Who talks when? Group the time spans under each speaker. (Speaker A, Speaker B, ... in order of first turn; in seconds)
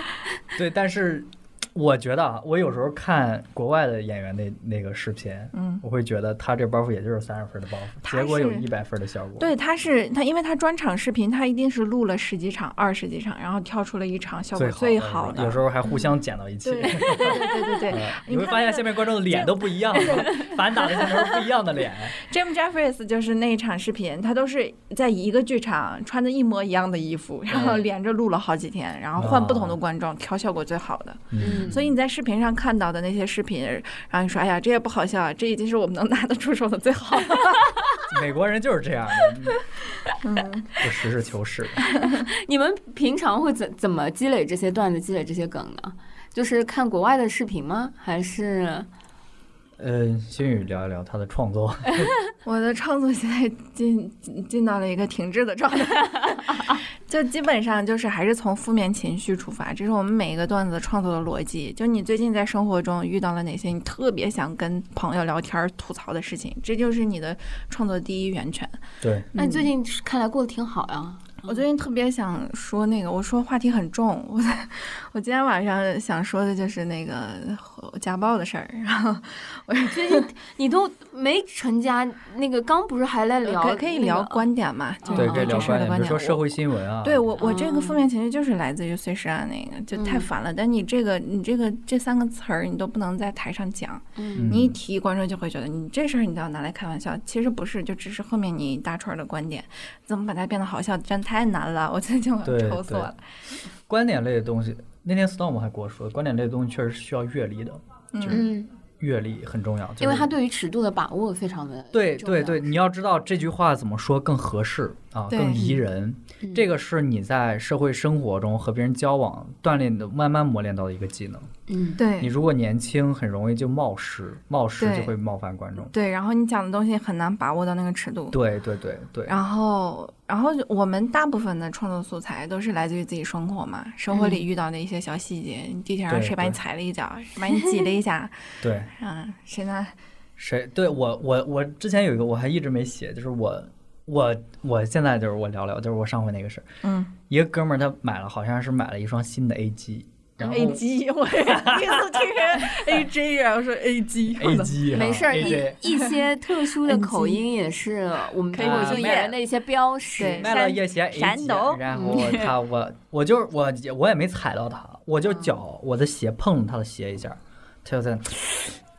Speaker A: 0.5-9.5, 14.5-22.1, 27.5-27.8, 29.2-29.8, 31.3-31.8, 38.1-39.6, 40.8-41.8, 49.8-52.1, 69.0-69.3, 85.2-87.4, 94.3-94.8, 102.4-103.1, 103.9-108.5, 109.0-110.3, 111.9-121.5, 122.2-125.9, 128.3-129.3, 136.1-136.6, 138.6-138.9, 140.4-146.7, 147.3-150.8, 151.4-152.4, 154.4-155.8, 158.5-159.3, 160.3-168.8
Speaker B: 5.5-5.8, 8.0-8.7, 9.4-15.6, 16.6-21.1, 22.1-37.7, 40.2-40.8, 41.9-42.2, 52.4-68.8, 69.3-69.7, 71.4-80.2, 83.4-86.4, 87.0-103.2, 108.1-108.4, 115.3-115.7, 122.0-122.3, 124.8-125.1, 125.9-128.4, 129.3-139.9, 146.8-147.1, 150.4-156.1, 156.8-157.4, 158.5-159.3, 160.2-162.5
Speaker C: 31.4-31.8, 42.1-48.9, 69.3-71.6, 79.9-84.5, 85.0-85.8, 87.4-88.0, 89.9-90.3, 94.2-94.5, 108.3-108.7, 110.0-112.7, 121.7-122.0, 134.1-134.4, 154.9-160.6, 161.9-162.4